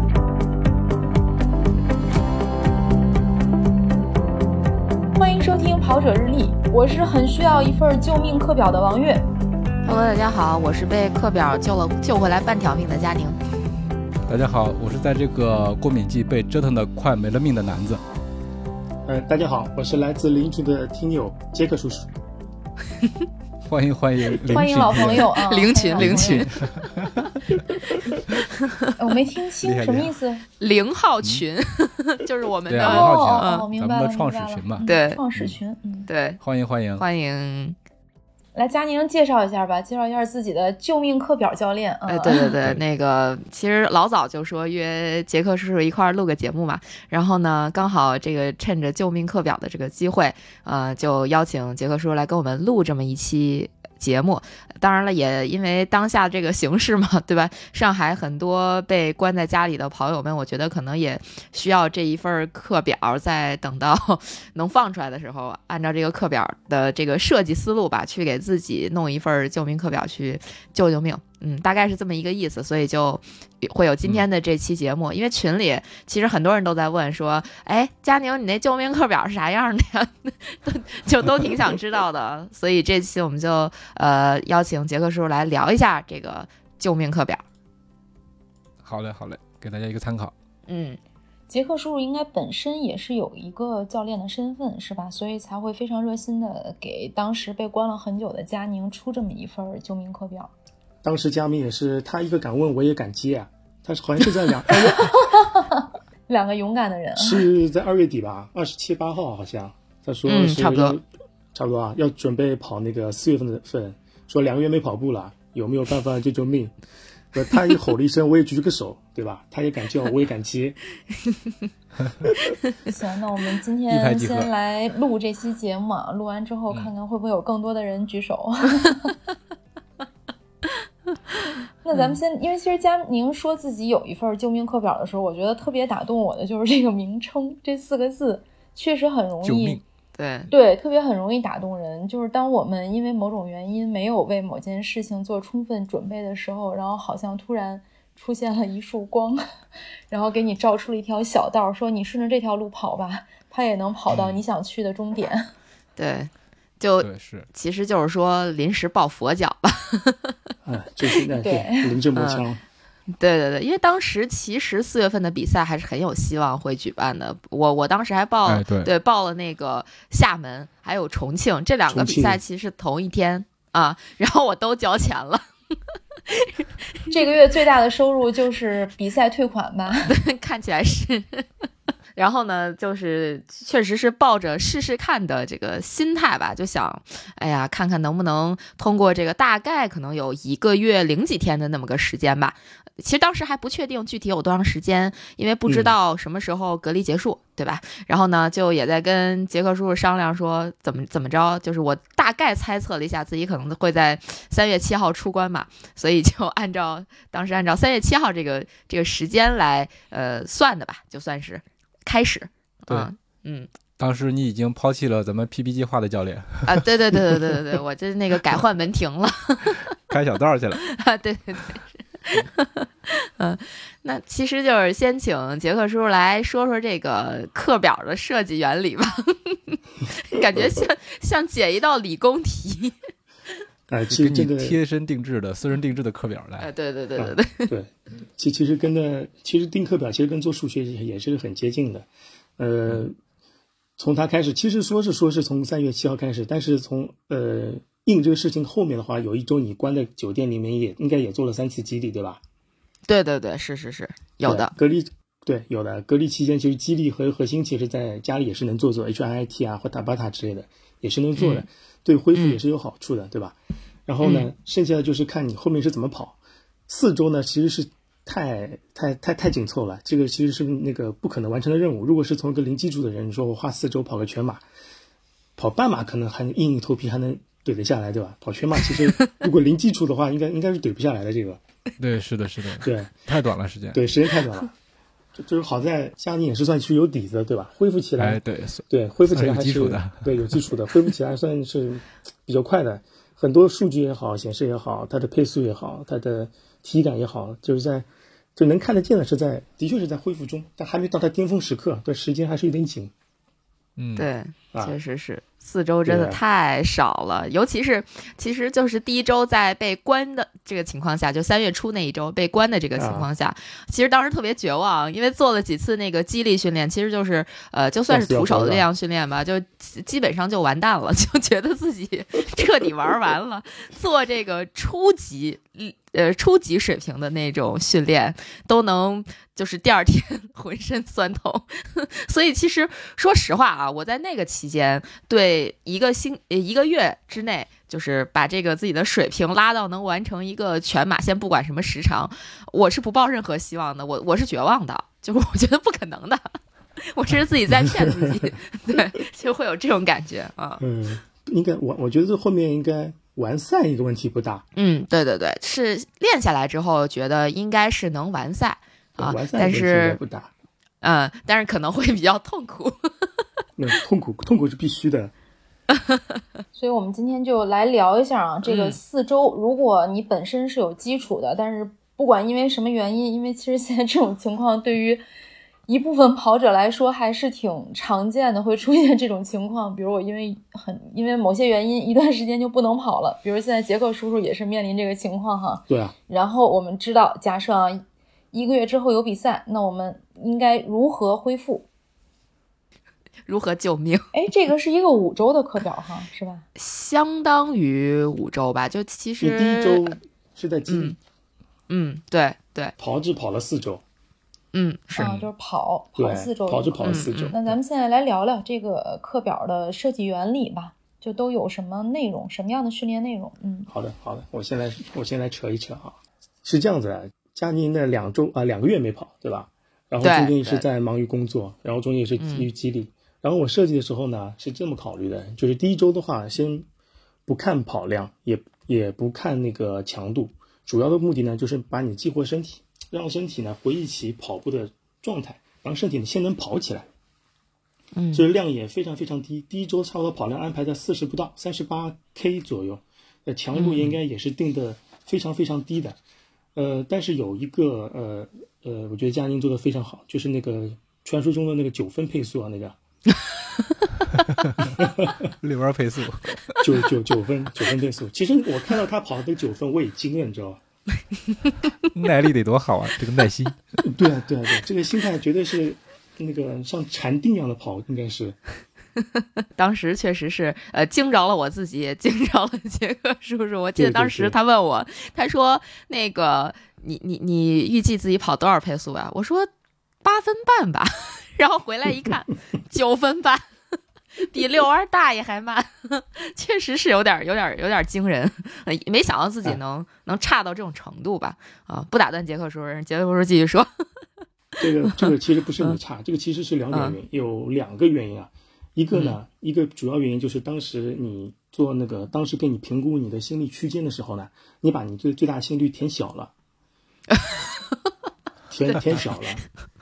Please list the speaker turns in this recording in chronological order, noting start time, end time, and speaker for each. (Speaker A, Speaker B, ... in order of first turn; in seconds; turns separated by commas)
Speaker A: 5.2-9.2, Speaker B: 9.8-13.4, Speaker C: 14.3-18.0, Speaker D: 19.1-22.1, Speaker C: 23.7-25.4, Speaker A: 24.4-26.5, Speaker B: 24.9-26.6, Speaker C: 25.9-28.5, Speaker B: 28.6-28.9, Speaker A: 29.0-30.4, Speaker C: 29.6-30.1, Speaker B: 30.6-33.7, Speaker C: 32.7-35.6, Speaker A: 32.8-36.1, Speaker B: 34.8-35.2, Speaker B: 36.1-36.4, Speaker C: 36.4-37.1, Speaker B: 37.0-37.8, Speaker A: 38.5-42.6, Speaker B: 42.1-87.4, Speaker C: 88.8-90.3, Speaker B: 90.7-91.0, Speaker A: 91.5-100.5, Speaker D: 101.0-105.1, Speaker A: 104.7-107.5, Speaker D: 107.2-116.7, Speaker B: 110.2-111.0, Speaker D: 117.3-120.8, Speaker A: 122.9-129.1, Speaker C: 123.9-124.5, Speaker A: 131.8-139.8, Speaker C: 139.4-139.8, Speaker B: 140.2-140.5, Speaker A: 140.5-149.4, Speaker A: 150.1-155.5, Speaker C: 154.1-154.4, Speaker B: 156.0-160.3, Speaker C: 157.0-157.5, Speaker D: 160.7-162.6, Speaker A: 161.4-161.9, Speaker B: 162.2-162.4, Speaker B: 163.1-175.4, Speaker C: 168.5-168.9, Speaker D: 171.9-172.4, Speaker B: 176.3-177.1, Speaker A: 177.1-180.1, Speaker B: 180.0-181.5, Speaker B: 182.2-213.7, Speaker D: 195.7-195.9, Speaker C: 214.0-217.6, Speaker B: 216.7-219.8, Speaker C: 219.7-220.8, Speaker B: 220.8-232.9, Speaker D: 230.6-230.8, Speaker D: 233.9-234.8, Speaker C: 234.1-236.7, Speaker B: 236.6-237.7, Speaker D: 237.2-243.2, Speaker D: 244.0-252.4, Speaker B: 253.1-254.7, Speaker D: 254.4-263.6, Speaker B: 261.4-261.7, Speaker B: 262.4-262.6, Speaker D: 264.1-274.6, Speaker B: 264.2-264.5, Speaker D: 275.6-281.6, Speaker C: 282.0-284.0, Speaker D: 282.8-283.2, Speaker D: 283.9-284.7, Speaker D: 285.4-303.1, Speaker C: 288.2-290.3, Speaker C: 304.0-304.3, Speaker B: 304.2-346.4, Speaker D: 304.7-305.0, Speaker D: 306.1-306.4, Speaker D: 313.0-313.3, Speaker D: 318.1-318.9, Speaker B: 347.0-350.8, Speaker D: 348.0-348.5, Speaker D: 350.8-354.6, Speaker B: 354.8-360.2, Speaker D: 359.2-360.5, Speaker B: 361.0-363.3, Speaker D: 363.8-365.3, Speaker A: 366.8-375.2, Speaker B: 368.6-369.0, Speaker A: 375.9-391.9, Speaker D: 385.9-386.1, Speaker B: 393.5-394.3, Speaker A: 394.3-396.6, Speaker B: 396.8-400.2, Speaker D: 399.4-401.2, Speaker B: 400.9-401.2, Speaker B: 401.9-402.9, Speaker D: 403.0-404.0, Speaker B: 404.7-405.3, Speaker A: 405.2-413.9, Speaker C: 405.2-405.5, Speaker D: 406.2-407.8, Speaker B: 407.0-407.5, Speaker D: 413.9-426.9, Speaker B: 420.2-420.8, Speaker B: 422.4-422.7, Speaker D: 427.5-437.1, Speaker B: 438.1-438.4, Speaker D: 438.3-446.2, Speaker B: 443.8-444.1, Speaker D: 446.8-453.0, Speaker C: 454.6-456.9, Speaker D: 454.9-455.5, Speaker D: 456.8-460.8, Speaker C: 462.1-463.8, Speaker D: 464.0-468.6, Speaker B: 469.6-479.7, Speaker D: 474.0-474.6, Speaker B: 480.2-483.6, Speaker B: 484.4-493.9, Speaker D: 494.8-506.5, Speaker B: 495.0-495.3, Speaker B: 496.9-497.2, Speaker B: 499.1-499.4, Speaker B: 507.3-507.6, Speaker D: 508.7-509.6